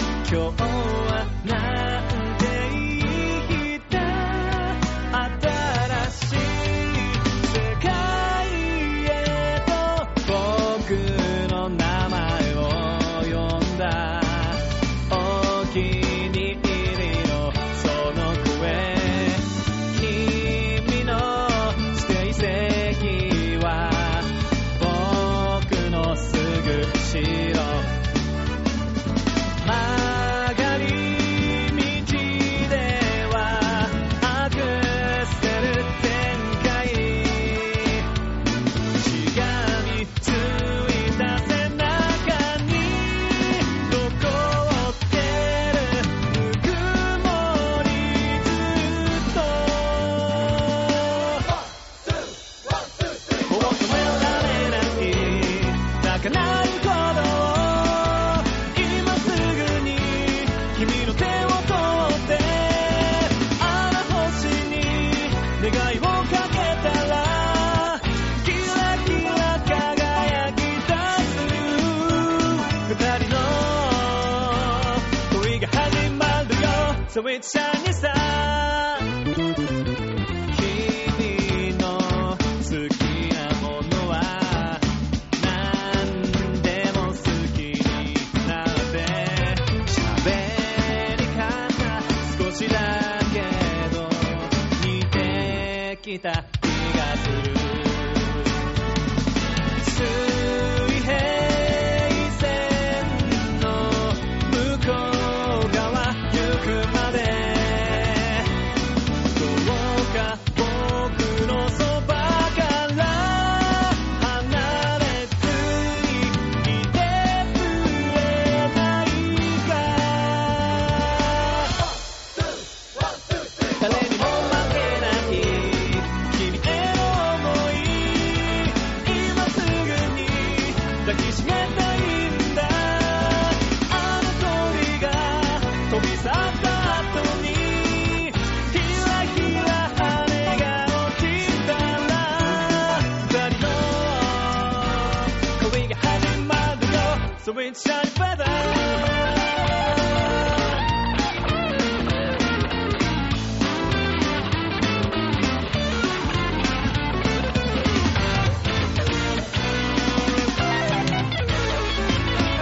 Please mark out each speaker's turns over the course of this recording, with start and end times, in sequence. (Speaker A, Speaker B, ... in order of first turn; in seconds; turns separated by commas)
Speaker A: 0.2-27.9, Speaker A: 29.6-38.1, Speaker A: 38.9-51.5, Speaker A: 53.4-79.1, Speaker A: 80.5-98.5, Speaker A: 99.8-108.5, Speaker A: 109.3-121.8, Speaker A: 123.7-150.8